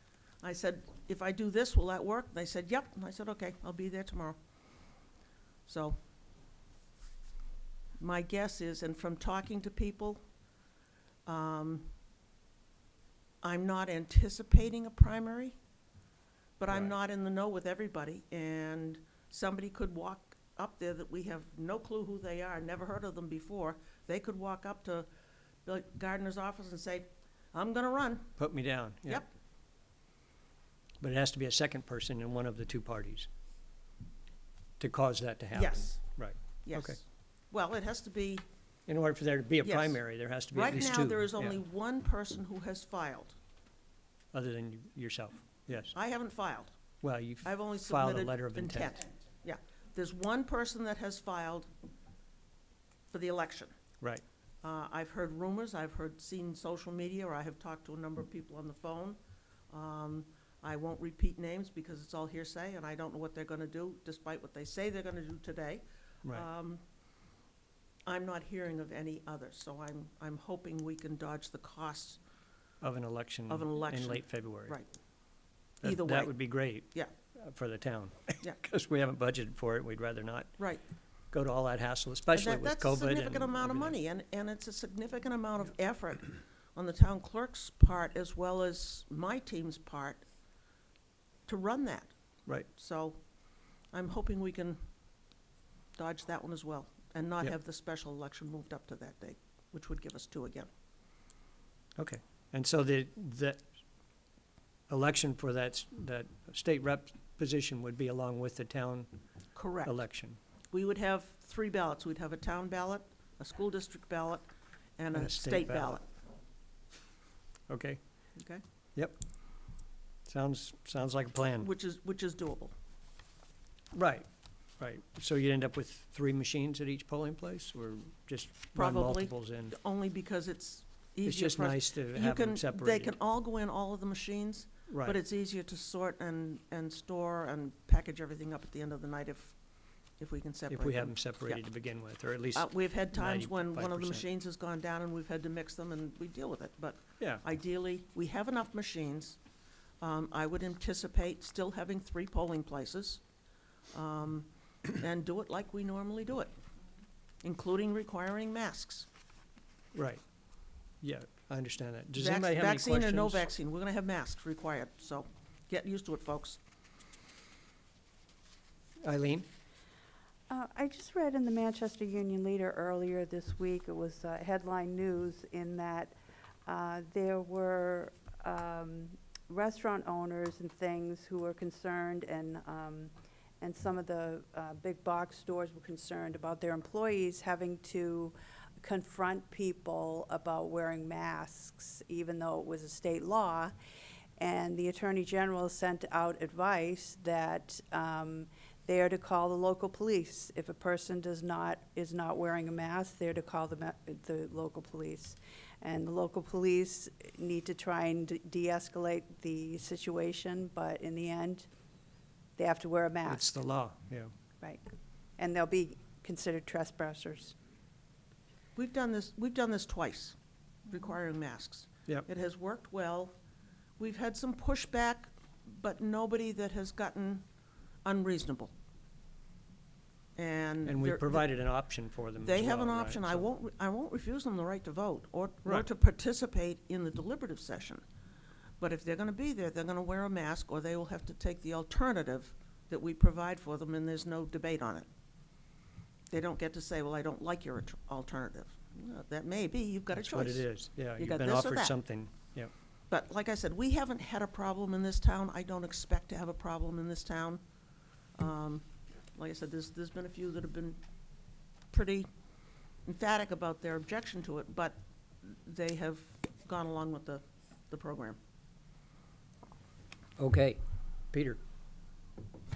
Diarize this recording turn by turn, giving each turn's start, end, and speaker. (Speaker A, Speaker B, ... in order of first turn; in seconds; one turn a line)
Speaker A: 0.4-4.4
Speaker A: 5.7-6.0
Speaker A: 8.0-10.2
Speaker A: 11.3-11.9
Speaker A: 13.4-15.6
Speaker A: 16.6-25.1
Speaker B: 16.7-16.9
Speaker A: 25.7-28.3
Speaker B: 28.4-29.2
Speaker B: 31.0-33.3
Speaker B: 34.8-37.0
Speaker A: 35.5-38.5
Speaker B: 38.9-41.6
Speaker A: 39.6-43.4
Speaker B: 44.3-45.9
Speaker A: 45.9-46.7
Speaker B: 47.0-49.0
Speaker A: 47.4-51.7
Speaker A: 53.1-53.8
Speaker A: 54.6-59.2
Speaker A: 59.7-66.8
Speaker A: 68.1-72.2
Speaker B: 72.8-74.8
Speaker A: 73.5-74.9
Speaker A: 75.8-77.1
Speaker B: 75.8-80.6
Speaker B: 81.3-84.0
Speaker A: 82.3-90.2
Speaker A: 91.5-94.8
Speaker A: 96.0-100.7
Speaker B: 102.0-103.7
Speaker B: 104.9-109.1
Speaker A: 109.5-110.0
Speaker B: 109.8-110.4
Speaker A: 110.7-114.5
Speaker A: 115.0-116.0
Speaker B: 115.1-116.0
Speaker B: 117.7-118.0
Speaker A: 118.4-118.6
Speaker B: 120.3-121.7
Speaker A: 121.6-122.7
Speaker B: 123.9-124.3
Speaker B: 124.8-129.8
Speaker A: 128.7-139.6
Speaker B: 131.2-133.2
Speaker B: 134.9-135.2
Speaker A: 140.2-141.6
Speaker B: 140.7-144.2
Speaker A: 142.6-149.4
Speaker A: 150.0-153.2
Speaker A: 153.9-156.5
Speaker A: 157.4-159.1
Speaker B: 159.9-160.2
Speaker B: 161.0-163.5
Speaker A: 162.2-166.6
Speaker B: 169.0-169.5
Speaker C: 170.5-193.7
Speaker C: 194.4-211.7
Speaker C: 212.6-213.5
Speaker B: 213.3-214.3
Speaker C: 215.4-217.6
Speaker A: 218.8-220.4
Speaker A: 220.9-223.3
Speaker A: 224.0-227.4
Speaker A: 228.1-228.7
Speaker A: 230.4-231.4
Speaker B: 230.8-233.5
Speaker A: 232.4-238.0
Speaker A: 238.8-245.1
Speaker A: 246.3-251.9
Speaker B: 250.2-252.7
Speaker A: 253.1-257.6
Speaker A: 258.4-258.9
Speaker A: 259.4-261.0
Speaker A: 261.9-262.3
Speaker A: 263.1-268.4
Speaker B: 270.4-270.8